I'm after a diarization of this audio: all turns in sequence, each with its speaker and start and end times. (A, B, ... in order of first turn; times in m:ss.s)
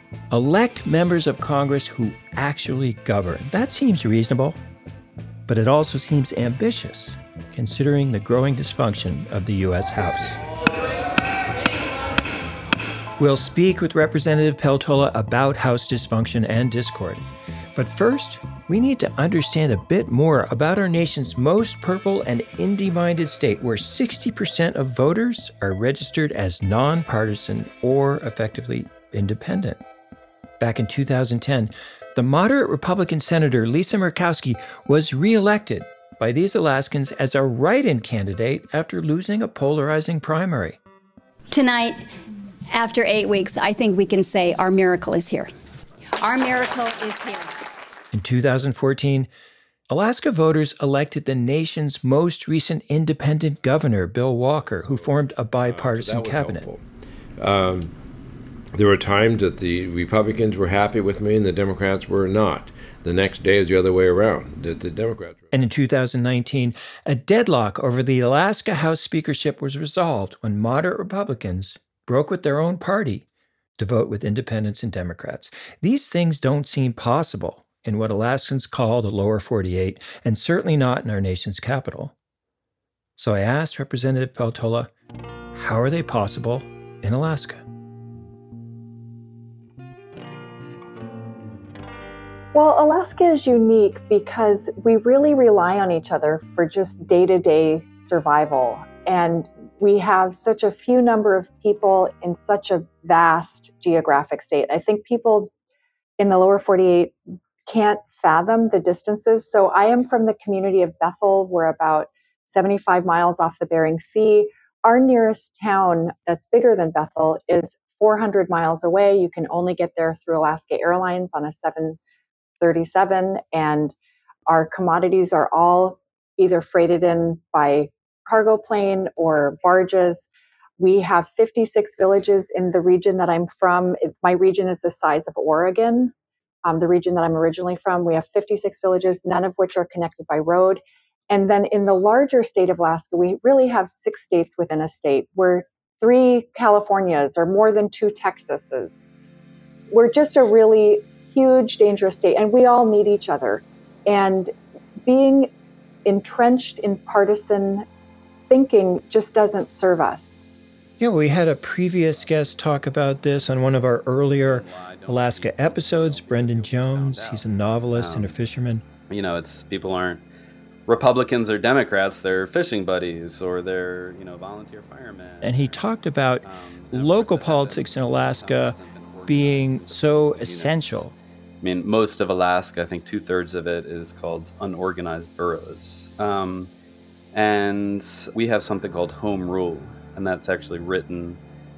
0:00.3-0:04.6 A
0:05.5-0:10.4 A
0:13.2-0:17.2 A
0:17.8-0:29.8 A
0:30.6-0:40.8 A
0:41.5-0:42.0 B
0:42.7-0:45.5 B
0:46.2-0:47.5 B
0:48.1-0:49.3 A
0:49.9-0:56.7 A
0:54.6-0:56.8 C
0:57.4-0:57.9 C
0:58.7-1:05.5 C
1:05.5-1:13.2 A
1:13.8-1:22.1 A
1:23.2-1:24.9 A
1:25.5-1:27.6 A
1:32.5-1:45.5 D
1:46.2-1:47.1 D
1:47.6-2:02.0 D
2:02.6-2:03.9 D
2:04.4-2:16.1 D
2:16.6-2:29.0 D
2:29.9-2:34.5 D
2:35.0-2:35.5 D
2:36.0-2:37.8 D
2:38.5-2:40.3 D
2:41.0-2:48.8 A
2:44.4-2:48.4 E
2:49.1-2:50.2 E
2:50.9-2:55.7 E
2:55.4-2:58.8 A
2:56.4-3:01.0 E
2:59.3-3:01.1 A
3:01.6-3:06.7 E
3:07.3-3:11.4 E